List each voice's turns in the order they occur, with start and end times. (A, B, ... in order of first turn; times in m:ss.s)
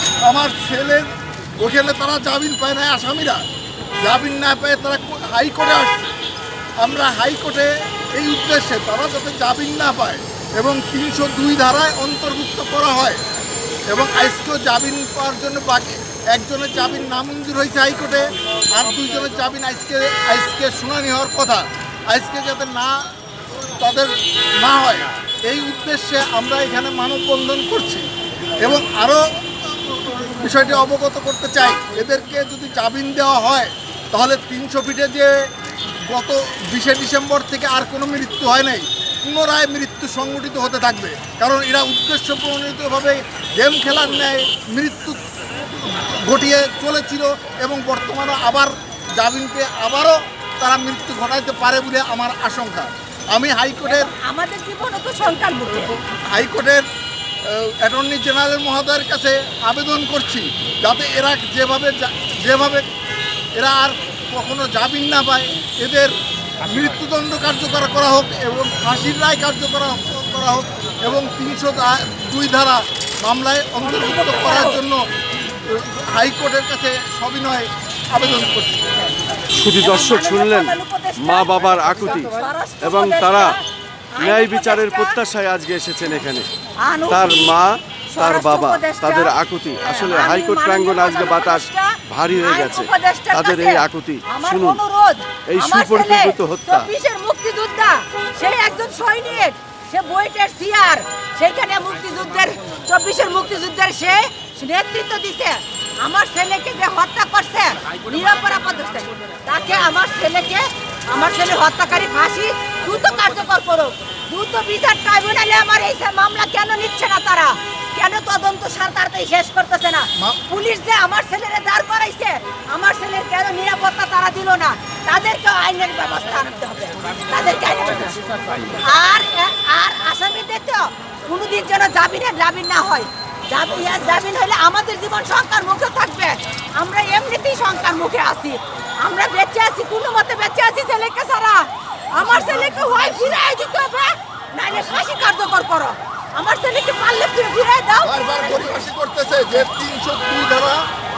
0:00.2-0:03.4 A
0:04.0-0:06.1 A
0:06.8-0:13.2 A
0:13.9-0:23.1 A
0:23.8-0:28.1 A
0:28.6-0:35.4 A
0:36.0-0:45.2 A
0:45.9-0:54.1 A
0:53.8-0:56.0 B
0:56.3-0:56.8 A
0:57.4-1:02.9 A
1:03.6-1:15.0 A
1:13.9-1:14.8 B
1:15.7-1:18.9 A
1:19.5-1:22.3 C
1:19.8-1:23.6 B
1:22.8-1:23.6 C
1:24.1-1:25.2 B
1:24.2-1:26.5 C
1:26.8-1:27.5 B
1:27.1-1:34.8 C
1:28.1-2:08.2 B
1:35.5-1:36.9 C
2:08.8-2:28.8 B
2:22.2-2:23.3 A
2:28.0-2:30.8 A